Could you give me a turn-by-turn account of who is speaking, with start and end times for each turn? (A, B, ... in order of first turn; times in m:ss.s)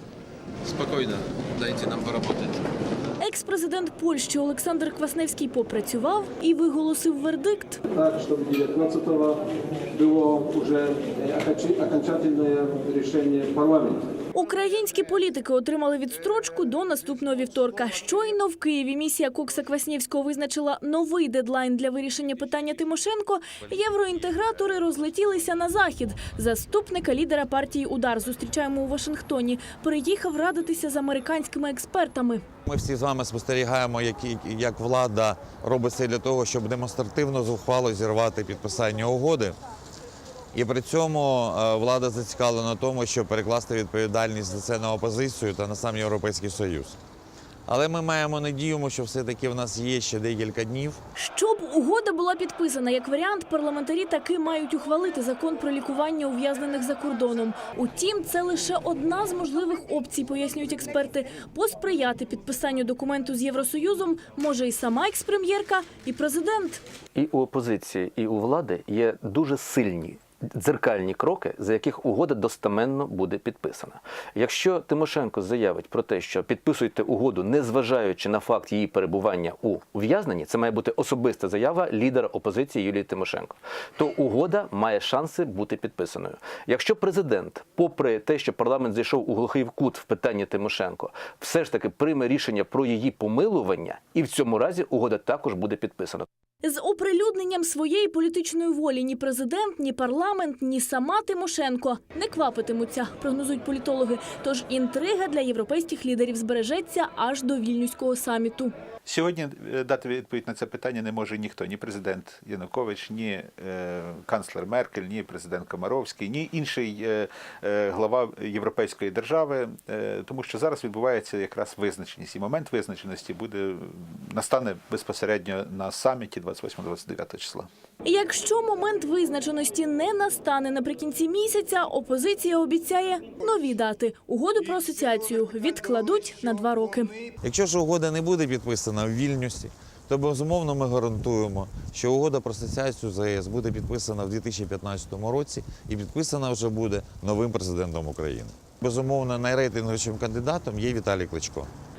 0:00.6-0:02.6 A
0:03.2-0:07.8 B
0:08.0-0:09.4 C
0:09.9-0:14.0 C
0:14.3-0:32.4 B
0:32.6-0:39.6 D
0:40.5-0:47.0 D
0:47.7-0:51.0 D
0:51.2-1:06.8 B
1:07.1-1:36.3 E
1:36.6-1:48.7 B
1:49.0-2:07.7 F
2:08.0-2:17.2 B
2:17.4-2:31.7 D